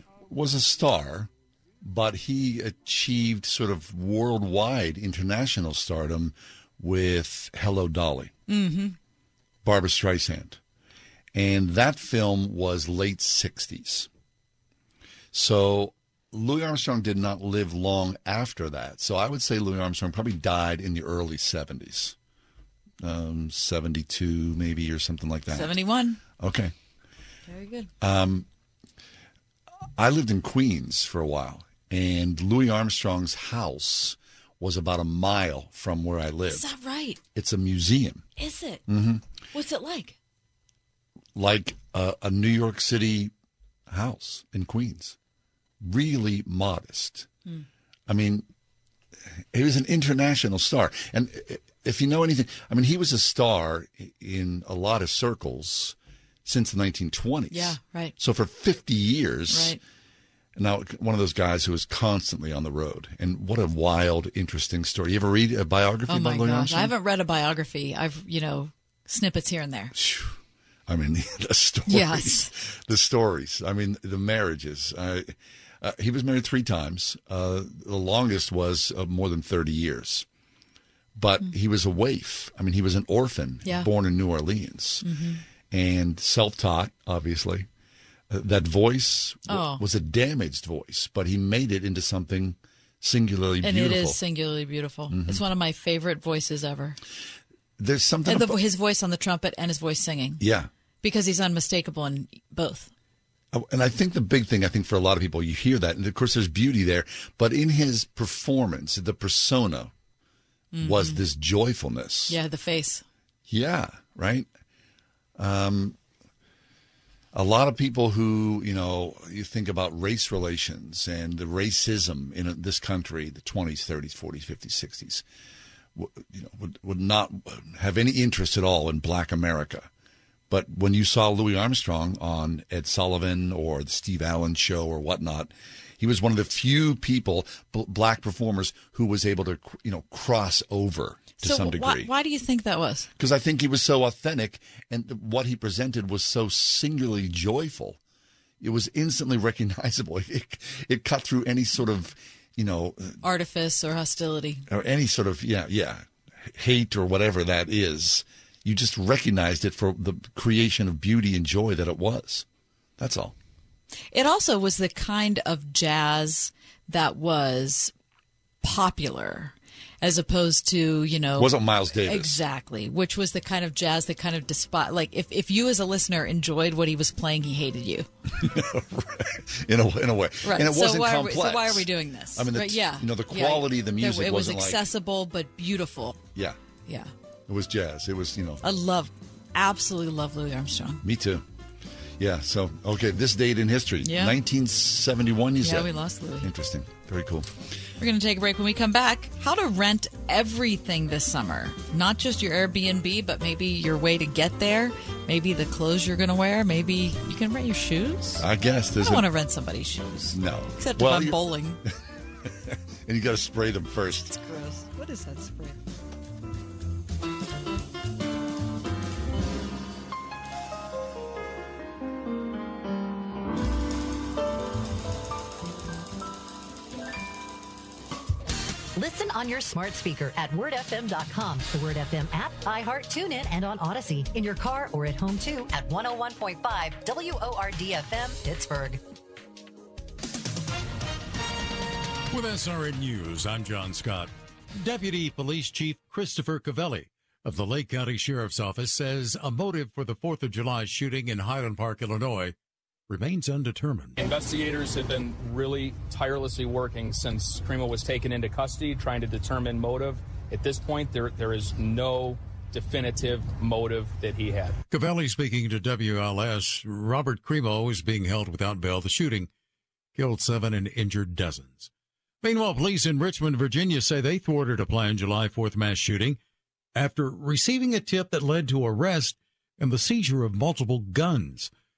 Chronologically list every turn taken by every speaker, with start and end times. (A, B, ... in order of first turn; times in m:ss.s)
0:00.3-0:01.3 A
0:01.8-0:08.3 A
0:08.5-0:09.0 B
0:09.6-0:10.6 A
0:11.3-0:14.1 A
0:15.3-0:22.2 A
0:23.0-0:25.8 A
0:25.5-0:26.2 B
0:26.4-0:26.7 A
0:27.5-0:27.9 B
0:28.0-0:28.4 A
0:30.0-0:36.7 A
0:36.5-0:37.2 B
0:37.3-0:38.3 A
0:38.4-0:38.8 B
0:38.9-0:39.2 A
0:39.5-0:40.2 B
0:41.3-0:43.3 A
0:43.9-0:45.2 A
0:45.8-0:47.3 A
0:48.1-0:48.4 A
0:49.5-0:59.8 A
0:57.5-0:58.1 B
0:59.5-0:59.8 B
1:00.6-1:06.9 A
1:06.1-1:09.9 B
1:09.9-1:20.2 A
1:11.9-1:12.5 B
1:21.2-1:25.1 A
1:25.0-1:25.4 B
1:25.7-1:27.7 A
1:28.3-1:34.2 A
1:29.5-1:29.8 B
1:33.6-1:37.0 B
1:35.1-1:35.4 A
1:37.8-1:38.6 A
1:38.2-1:40.4 B
1:40.4-1:40.7 A
1:41.0-1:42.9 B
1:43.5-1:49.9 A
1:50.7-1:51.2 B
1:50.8-1:52.4 A
1:52.3-1:53.0 B
1:53.5-1:54.5 A
1:55.4-1:56.0 A
1:57.3-2:05.2 A
2:06.0-2:09.9 A
2:10.5-2:22.1 A
2:21.4-2:23.1 B
2:23.2-2:28.0 A
2:28.6-2:33.2 A
2:33.2-2:34.6 B
2:34.7-2:42.4 A
2:43.0-2:43.3 A
2:44.1-2:47.9 B
2:48.6-2:58.1 B
2:51.4-2:52.4 A
2:58.3-3:04.9 A
3:00.4-3:06.2 B
3:06.9-3:07.1 B
3:07.5-3:08.6 A
3:08.6-3:11.0 B
3:11.0-3:11.4 A
3:12.2-3:17.5 A
3:14.0-3:14.4 B
3:15.6-3:16.5 B
3:18.0-3:28.4 B
3:28.4-3:29.3 A
3:29.0-3:31.8 B
3:30.3-3:31.4 A
3:32.7-3:34.3 A
3:34.3-3:35.8 B
3:49.0-3:59.0 C
4:02.3-4:12.5 D
4:13.1-4:14.2 D
4:14.2-4:24.8 E
4:24.9-4:29.5 D
4:30.1-4:31.9 D
4:32.4-4:36.4 D
4:36.9-4:41.7 D